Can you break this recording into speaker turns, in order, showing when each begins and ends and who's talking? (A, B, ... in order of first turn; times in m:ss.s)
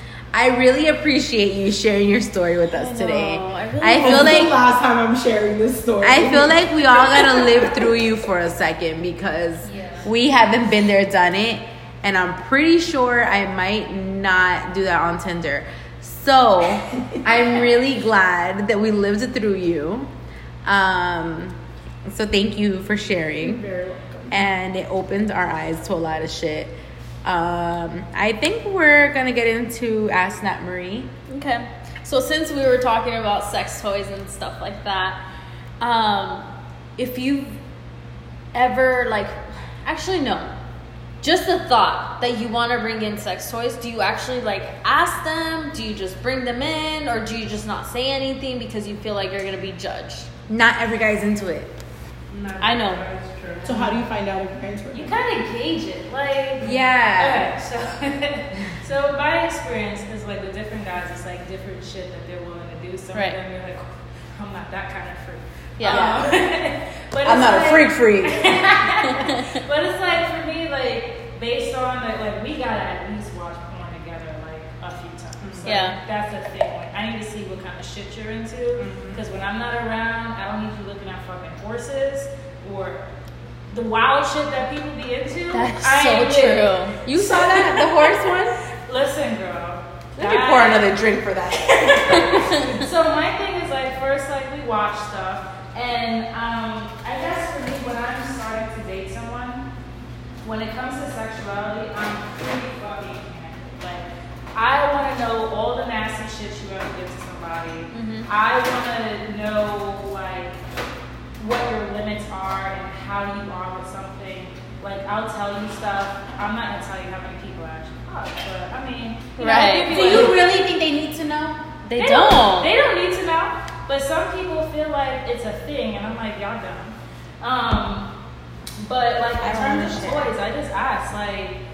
0:00.3-0:04.6 A
0:02.7-0:04.5 B
0:04.0-0:06.7 C
0:06.0-0:20.1 A
0:09.6-0:10.1 D
0:20.7-0:23.6 A
0:23.4-0:24.4 C
0:24.3-0:31.1 A
0:31.3-0:35.2 B
0:35.8-0:37.6 B
0:38.5-0:40.6 B
0:41.2-0:50.3 B
0:50.5-0:51.7 A
0:52.3-0:53.9 E
0:52.6-0:53.0 B
0:53.6-0:55.2 C
0:54.9-1:23.0 D
0:56.6-0:57.5 A
1:05.8-1:06.2 B
1:05.8-1:06.4 A
1:07.2-1:08.6 A
1:09.0-1:09.6 B
1:15.4-1:15.7 E
1:15.6-1:16.0 B
1:18.8-1:19.2 E
1:23.7-1:28.1 D
1:25.5-1:27.6 B
1:27.0-1:28.6 A
1:28.9-1:31.0 D
1:30.2-1:32.5 A
1:31.7-1:39.7 D
1:32.1-1:32.8 B
1:40.4-1:50.6 D
1:47.9-1:48.3 B
1:51.4-2:00.5 D
1:59.4-2:00.3 B
1:59.7-2:01.6 A
2:01.8-2:02.7 B
2:02.0-2:08.1 D
2:08.8-2:11.6 D
2:09.4-2:10.3 A